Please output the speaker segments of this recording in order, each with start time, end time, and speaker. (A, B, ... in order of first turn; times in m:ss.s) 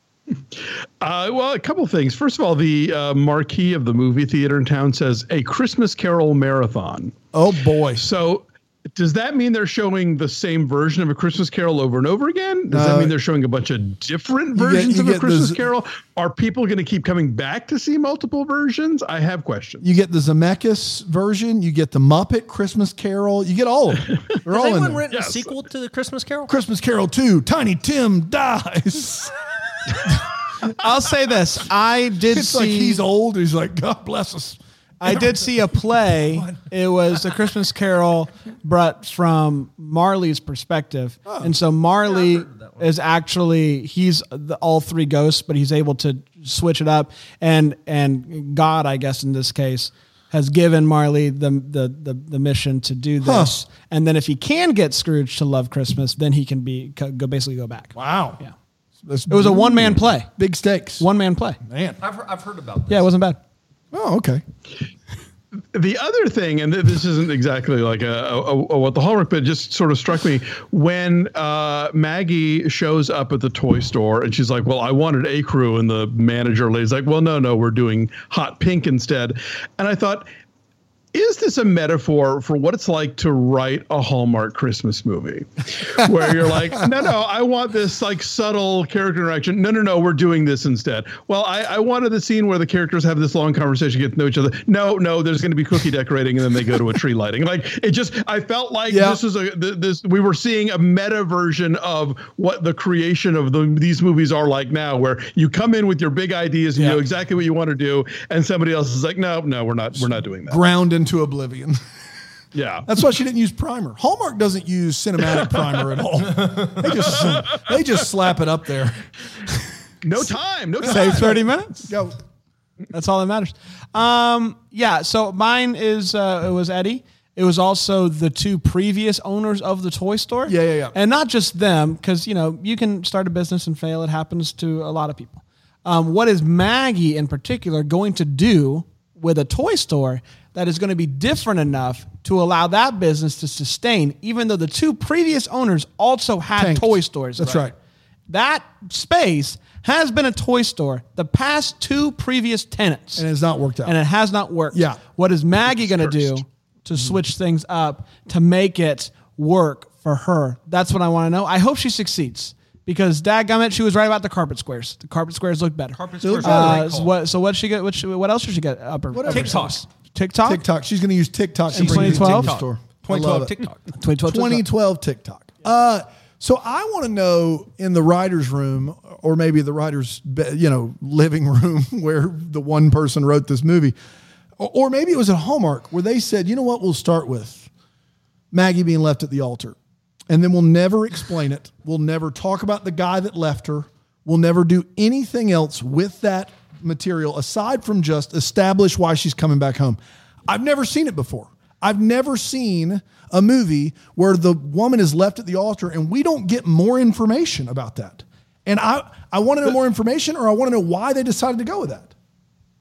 0:00.5-0:07.1 A
0:07.3-0:08.0 B
0:08.0-0:19.8 A
0:12.7-0:13.1 B
0:14.5-0:15.6 B
0:19.8-0:25.0 B
0:24.4-0:26.5 C
0:25.1-0:25.6 A
0:26.5-0:30.2 B
0:30.6-0:33.0 D
0:32.3-0:35.4 B
0:35.0-0:58.5 D
0:42.0-0:42.8 C
0:53.2-0:53.5 B
0:57.9-0:58.4 B
0:59.0-1:01.1 B
0:59.3-1:00.3 D
1:01.0-1:01.6 D
1:01.6-1:02.0 B
1:02.0-1:03.0 C
1:02.9-1:03.4 D
1:03.9-1:04.4 B
1:05.7-1:20.2 A
1:21.1-1:50.6 A
1:38.9-1:39.2 B
1:46.7-1:47.0 B
1:50.0-1:51.8 B
1:52.5-1:52.9 A
1:52.8-1:59.0 B
1:57.0-1:57.6 A
2:00.0-2:01.4 A
2:00.8-2:01.9 D
2:01.2-2:02.2 B
2:02.9-2:27.7 D
2:10.4-2:10.9 B
2:26.6-2:27.7 B
2:28.3-2:33.2 D
2:33.2-2:34.0 B
2:33.8-2:50.6 D
2:34.7-2:35.0 B
2:46.0-2:47.1 C
2:46.2-2:46.8 B
2:49.1-2:49.7 B
2:49.3-2:49.8 C
2:50.4-2:53.6 B
2:51.7-2:52.6 D
2:51.7-2:53.8 C
2:53.9-2:54.6 D
2:54.3-3:03.9 B
3:04.6-3:07.7 B
3:08.5-3:09.8 B
3:10.3-3:32.1 B